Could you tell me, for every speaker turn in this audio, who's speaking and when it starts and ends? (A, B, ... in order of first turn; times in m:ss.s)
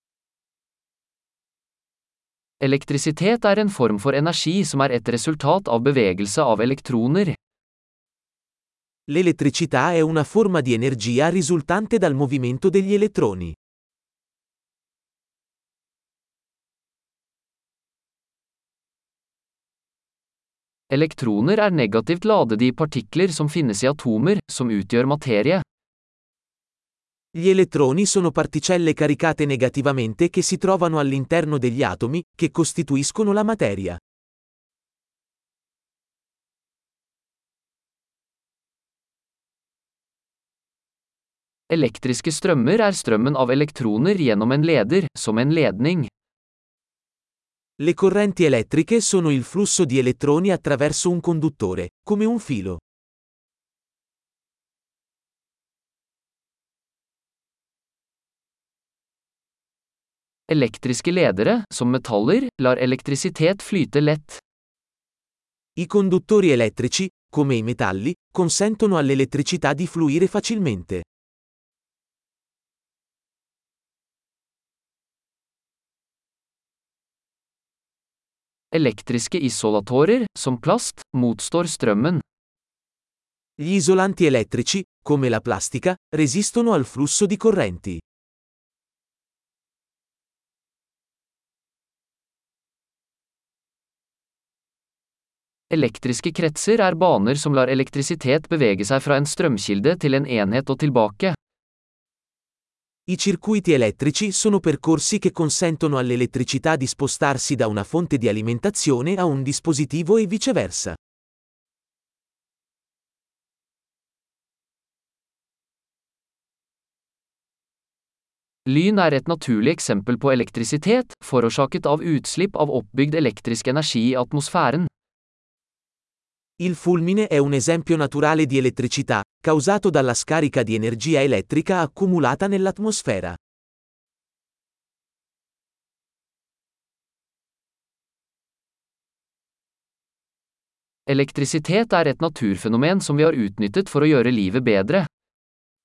0:02.6-0:07.4 A
0:09.1-0:13.6 B
0:20.9-0:25.6 A
0:27.4-0:34.0 B
0:41.7-0:46.1 A
0:47.8-0:52.8 B
1:00.5-1:04.4 A
1:05.8-1:11.0 B
1:18.7-1:22.2 A
1:23.6-1:28.0 B
1:35.7-1:41.4 A
1:43.1-1:51.0 B
1:58.7-2:04.9 A
2:06.6-2:13.4 B
2:21.1-2:25.1 A